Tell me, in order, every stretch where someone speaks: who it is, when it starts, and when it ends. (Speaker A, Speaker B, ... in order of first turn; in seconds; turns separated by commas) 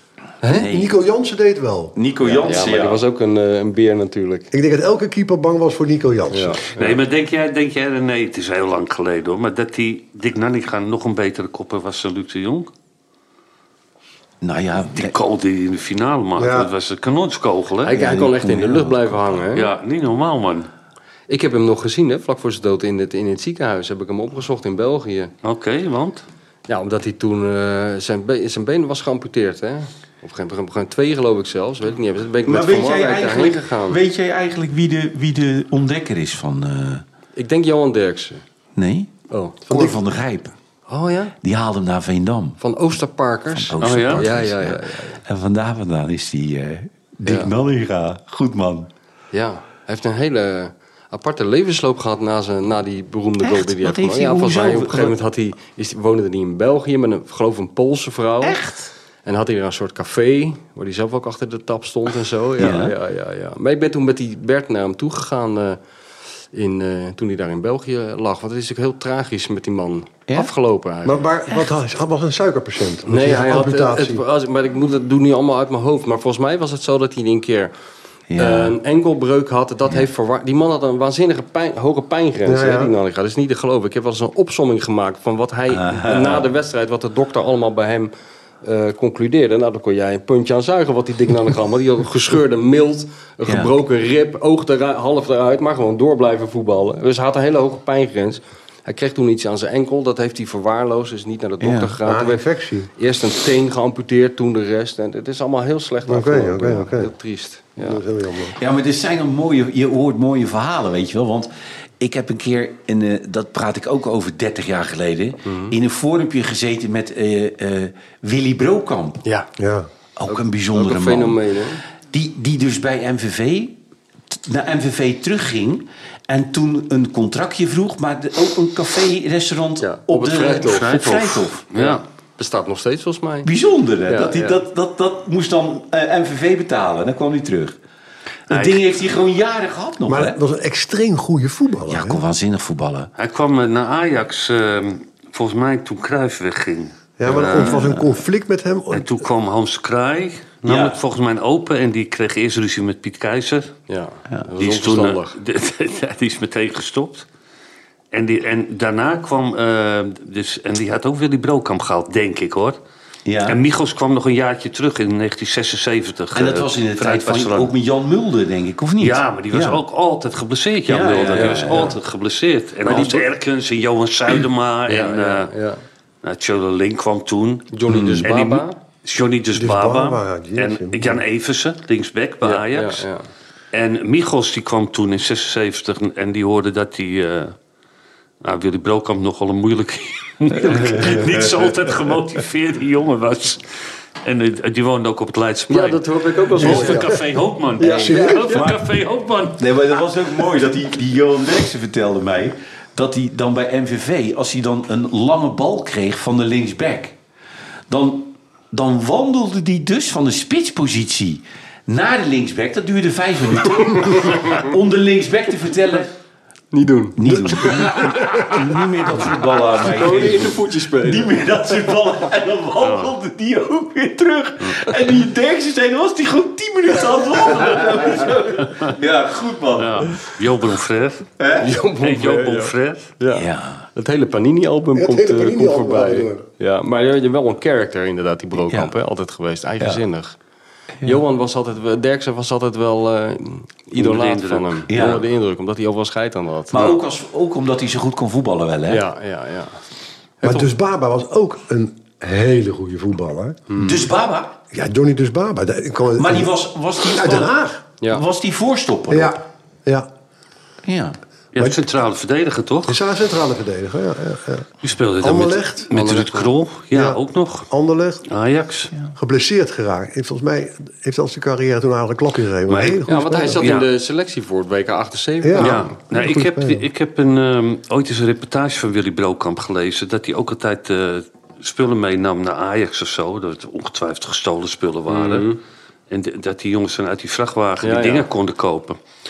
Speaker A: 0.4-0.7, Speaker B: 0.5-0.9, Speaker C: 0.5-1.9, Speaker B: 1.9-3.0, Speaker A: 2.2-4.5, Speaker C: 4.5-6.6, Speaker A: 6.3-7.0, Speaker D: 6.8-12.7, Speaker B: 14.4-15.1, Speaker D: 14.9-17.9, Speaker C: 16.4-16.7, Speaker A: 17.8-19.7, Speaker B: 17.9-19.4, Speaker D: 19.5-20.7, Speaker A: 21.3-25.3, Speaker D: 25.4-26.2, Speaker A: 26.7-34.0, Speaker B: 32.4-37.0, Speaker A: 37.4-38.4, Speaker B: 38.7-39.1, Speaker A: 39.3-39.6, Speaker C: 39.7-40.0, Speaker B: 39.7-40.5, Speaker A: 40.9-41.4, Speaker B: 41.4-42.6, Speaker A: 42.6-45.2, Speaker B: 43.5-48.9, Speaker D: 43.8-44.3, Speaker A: 47.2-47.5, Speaker A: 49.3-58.6, Speaker B: 53.4-55.2, Speaker B: 58.4-58.9, Speaker A: 59.2-65.8, Speaker B: 62.6-62.9, Speaker A: 66.5-71.2, Speaker C: 71.0-74.2, Speaker A: 73.1-77.7, Speaker B: 78.3-78.8, Speaker A: 78.4-88.1, Speaker C: 82.4-82.9, Speaker B: 85.7-86.4, Speaker A: 88.6-108.0, Speaker B: 93.5-93.7, Speaker B: 101.6-102.0, Speaker C: 102.0-102.9, Speaker C: 106.1-107.1, Speaker C: 107.8-108.6, Speaker B: 108.5-119.2, Speaker A: 115.4-115.7, Speaker C: 119.6-119.9, Speaker B: 120.2-121.4, Speaker A: 120.3-121.8, Speaker B: 122.1-123.8, Speaker B: 124.3-131.6, Speaker A: 129.8-133.5, Speaker D: 130.8-132.0, Speaker B: 133.4-137.8, Speaker A: 134.1-134.6, Speaker B: 138.5-140.4, Speaker D: 138.5-138.8, Speaker C: 140.1-142.2, Speaker B: 141.9-143.1, Speaker D: 143.2-147.8, Speaker C: 147.2-149.2, Speaker B: 147.3-148.0, Speaker D: 148.9-153.7, Speaker B: 150.7-151.0, Speaker A: 153.9-155.4, Speaker D: 154.6-157.2, Speaker D: 158.1-162.8, Speaker B: 163.2-163.6, Speaker D: 163.4-167.7, Speaker B: 166.3-169.8, Speaker D: 169.0-175.5, Speaker B: 170.9-172.0, Speaker A: 171.3-171.9, Speaker B: 172.9-173.2, Speaker A: 172.9-173.2, Speaker A: 174.9-175.8, Speaker D: 176.2-177.7, Speaker A: 177.7-178.8, Speaker B: 177.9-178.3, Speaker D: 178.2-183.1, Speaker C: 179.5-181.2, Speaker A: 182.4-183.3, Speaker D: 183.7-187.6, Speaker D: 188.4-193.6, Speaker B: 190.5-191.8, Speaker D: 194.2-199.6, Speaker A: 195.7-197.2, Speaker C: 196.6-197.2, Speaker C: 197.8-198.6, Speaker B: 197.8-198.7, Speaker A: 197.8-198.7, Speaker B: 199.6-207.2, Speaker B: 207.9-216.1, Speaker A: 213.9-214.3, Speaker A: 216.7-218.2, Speaker B: 217.2-230.2, Speaker A: 219.8-221.4, Speaker D: 222.8-223.1, Speaker D: 229.8-231.3, Speaker B: 231.4-231.7, Speaker A: 231.6-240.4, Speaker D: 232.0-233.1, Speaker B: 233.3-233.8, Speaker C: 234.9-236.4, Speaker A: 241.0-247.0, Speaker D: 243.9-245.2, Speaker B: 244.9-245.2, Speaker B: 246.7-249.0, Speaker A: 248.9-249.8, Speaker A: 250.4-250.7, Speaker C: 250.4-253.7, Speaker A: 253.7-254.0, Speaker B: 253.8-254.6, Speaker C: 254.7-257.8, Speaker B: 256.2-257.5, Speaker B: 258.1-259.4, Speaker C: 259.1-260.1, Speaker B: 260.8-261.2, Speaker D: 261.5-263.0, Speaker C: 262.9-264.7, Speaker D: 264.8-267.7, Speaker C: 265.2-265.9, Speaker A: 265.9-266.5, Speaker C: 266.9-268.2, Speaker D: 268.2-268.9, Speaker C: 269.1-273.7, Speaker D: 272.7-273.9, Speaker A: 273.1-275.9, Speaker C: 275.4-276.9, Speaker D: 275.6-285.5, Speaker A: 285.1-285.6, Speaker D: 286.1-289.0, Speaker A: 287.8-288.3